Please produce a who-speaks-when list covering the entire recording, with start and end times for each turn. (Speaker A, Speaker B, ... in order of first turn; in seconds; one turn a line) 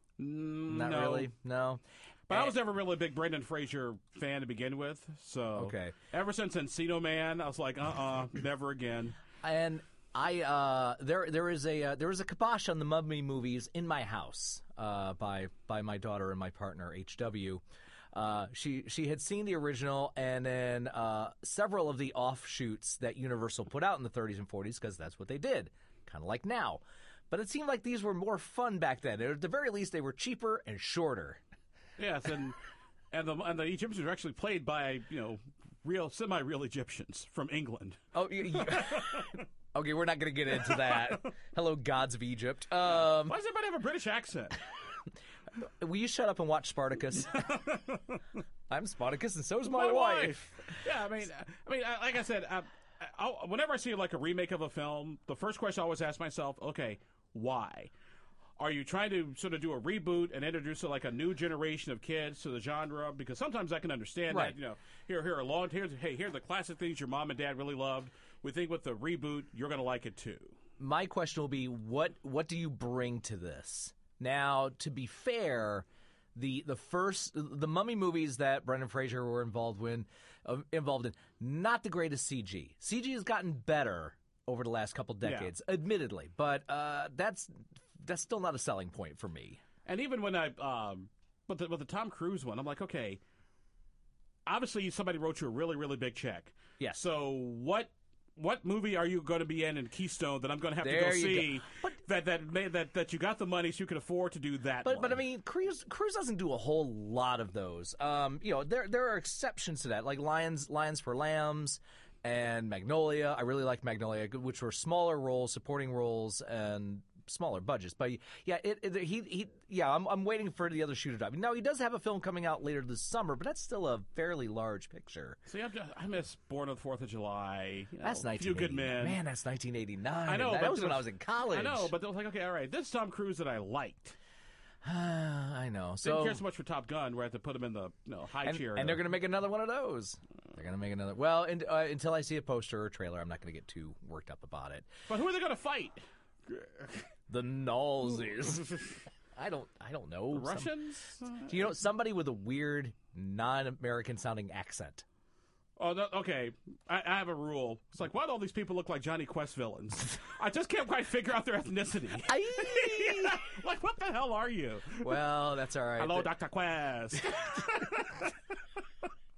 Speaker A: 0.2-1.3
Speaker B: 0.7-2.5
Speaker A: 2.3-9.2
Speaker B: 5.6-6.0
Speaker B: 9.4-31.4
Speaker A: 32.0-32.6
Speaker A: 33.1-38.0
Speaker B: 38.1-43.4
Speaker A: 38.5-39.4
Speaker A: 40.6-41.2
Speaker A: 43.0-44.6
Speaker B: 45.6-47.5
Speaker A: 47.3-48.2
Speaker B: 48.7-50.7
Speaker A: 49.7-57.9
Speaker A: 58.6-70.5
Speaker B: 64.3-64.6
Speaker B: 70.8-89.6
Speaker A: 85.2-85.5
Speaker A: 89.9-93.2
Speaker A: 94.5-105.2
Speaker B: 100.8-102.0
Speaker B: 104.8-125.4
Speaker A: 125.5-129.2
Speaker B: 128.0-131.9
Speaker A: 130.3-134.2
Speaker B: 134.8-136.4
Speaker A: 136.0-139.0
Speaker B: 138.4-144.9
Speaker A: 145.1-147.1
Speaker B: 147.3-148.8
Speaker B: 149.4-150.7
Speaker A: 150.3-151.7
Speaker B: 151.5-155.1
Speaker A: 155.8-165.2
Speaker B: 162.2-163.4
Speaker B: 165.0-166.3
Speaker A: 166.0-168.3